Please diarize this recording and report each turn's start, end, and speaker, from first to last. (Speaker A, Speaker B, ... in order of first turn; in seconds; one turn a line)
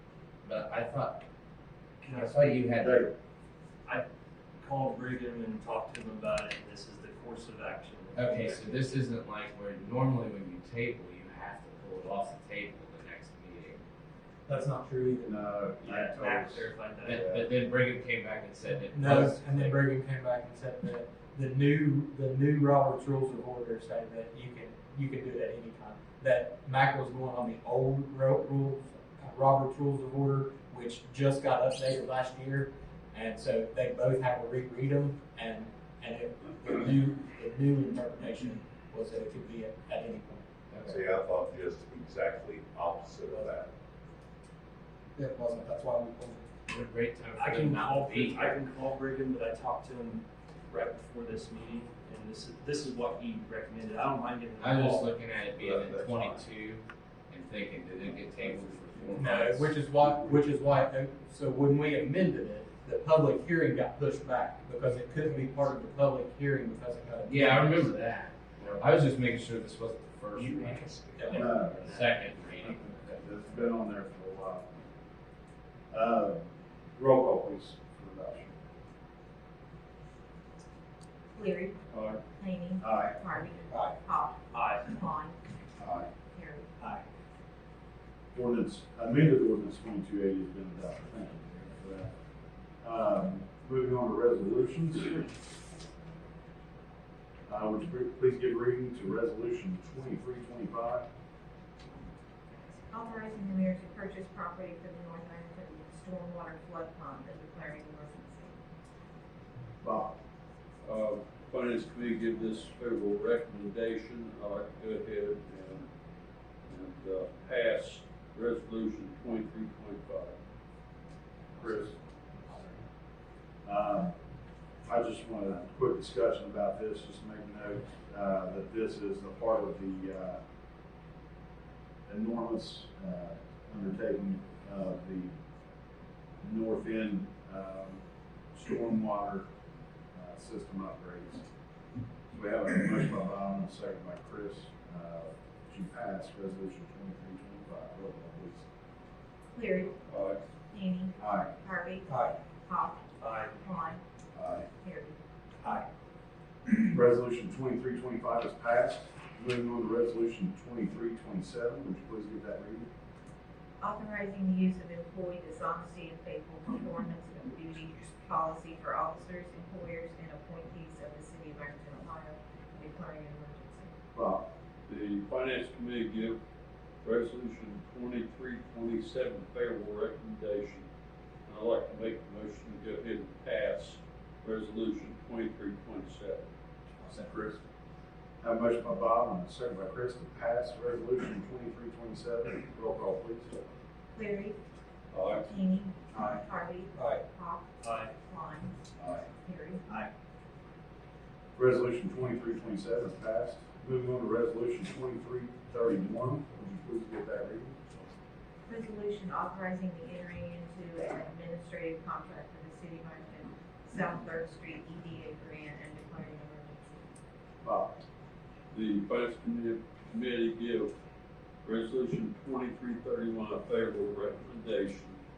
Speaker A: 0.4-1.2
Speaker B: 2.0-2.7
Speaker A: 2.1-3.1
Speaker C: 2.8-3.1
Speaker B: 4.6-8.8
Speaker A: 8.1-13.8
Speaker D: 14.5-15.4
Speaker C: 15.2-16.7
Speaker B: 15.8-17.4
Speaker A: 17.0-19.8
Speaker D: 18.9-40.9
Speaker E: 40.8-43.7
Speaker D: 43.3-43.6
Speaker D: 45.2-46.5
Speaker A: 46.7-48.6
Speaker B: 47.4-55.1
Speaker A: 54.6-59.7
Speaker E: 55.5-56.5
Speaker D: 59.2-68.0
Speaker A: 67.2-73.1
Speaker B: 70.3-72.0
Speaker D: 71.2-71.5
Speaker C: 71.3-71.9
Speaker C: 72.6-74.7
Speaker C: 75.9-78.6
Speaker F: 81.3-85.4
Speaker C: 82.8-83.1
Speaker D: 83.7-84.0
Speaker B: 84.5-84.8
Speaker C: 85.8-86.1
Speaker F: 86.3-86.7
Speaker C: 88.3-92.1
Speaker C: 92.8-95.3
Speaker C: 97.5-101.1
Speaker F: 102.5-108.6
Speaker C: 109.8-110.1
Speaker G: 110.8-115.8
Speaker G: 116.7-120.4
Speaker C: 121.5-122.0
Speaker C: 123.6-124.1
Speaker C: 124.8-130.4
Speaker C: 132.1-135.3
Speaker C: 136.4-138.0
Speaker C: 138.5-139.5
Speaker C: 140.1-141.5
Speaker C: 142.3-148.6
Speaker F: 149.5-150.0
Speaker G: 150.1-150.4
Speaker F: 150.7-154.0
Speaker C: 151.2-151.5
Speaker D: 152.1-152.4
Speaker B: 153.2-153.6
Speaker C: 154.4-154.7
Speaker F: 154.8-155.2
Speaker C: 156.8-162.9
Speaker F: 163.8-173.9
Speaker C: 174.1-174.5
Speaker G: 174.9-176.4
Speaker G: 177.0-180.8
Speaker G: 181.5-186.4
Speaker C: 187.2-187.6
Speaker C: 188.4-193.6
Speaker F: 194.1-194.6
Speaker G: 195.1-195.5
Speaker F: 195.3-198.8
Speaker D: 197.0-197.2
Speaker B: 197.8-198.1
Speaker F: 199.3-199.8
Speaker C: 201.6-208.0
Speaker F: 208.7-217.1
Speaker C: 217.6-218.0
Speaker G: 218.7-220.9
Speaker G: 221.6-225.2